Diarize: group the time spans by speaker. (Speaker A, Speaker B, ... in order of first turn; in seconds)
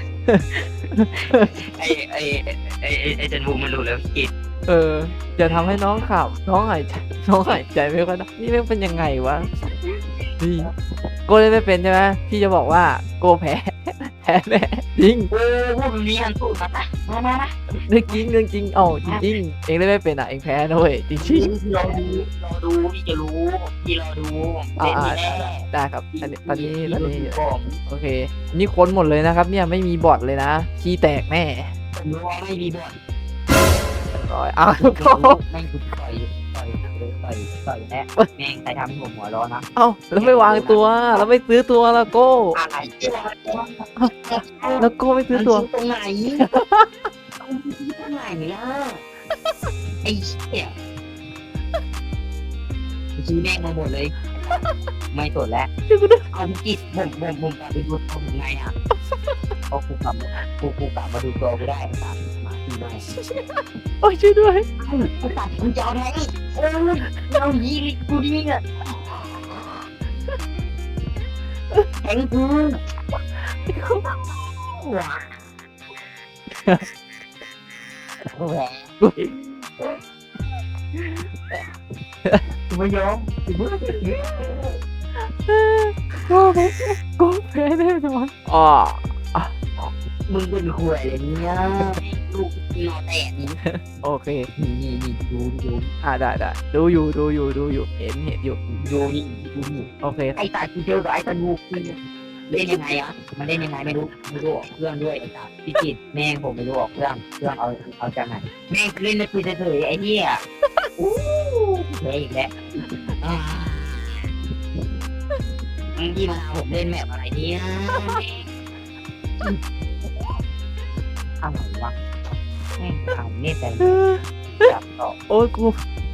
Speaker A: 0.3-1.5, 4.7-9.5, 10.4-10.7, 11.3-15.3, 17.9-21.5, 24.8-31.7, 34.1-35.4, 39.8-42.6, 44.0-45.7, 46.4-47.1, 54.4-54.8, 55.9-56.2, 58.9-59.5, 63.1-64.7, 67.0-67.3, 73.7-74.0, 85.2-89.5, 93.6-94.5, 96.0-98.6, 100.0-100.4, 123.8-124.7, 125.3-125.8
Speaker B: 1.1-4.3, 9.6-10.2, 15.3-17.6, 21.2-27.8, 32.0-33.0, 34.8-39.7, 40.2-40.9, 42.5-46.5, 47.4-49.0, 50.0-50.7, 53.2-54.2, 55.1-55.7, 56.3-58.7, 59.7-63.1, 64.8-69.8, 72.0-72.8, 74.0-75.5, 78.3-80.0, 81.0-81.6, 82.7-84.8, 89.8-93.6, 94.6-95.9, 98.7-110.4, 111.0-114.3, 116.0-118.5, 121.4-122.0, 122.8-124.0, 124.6-125.2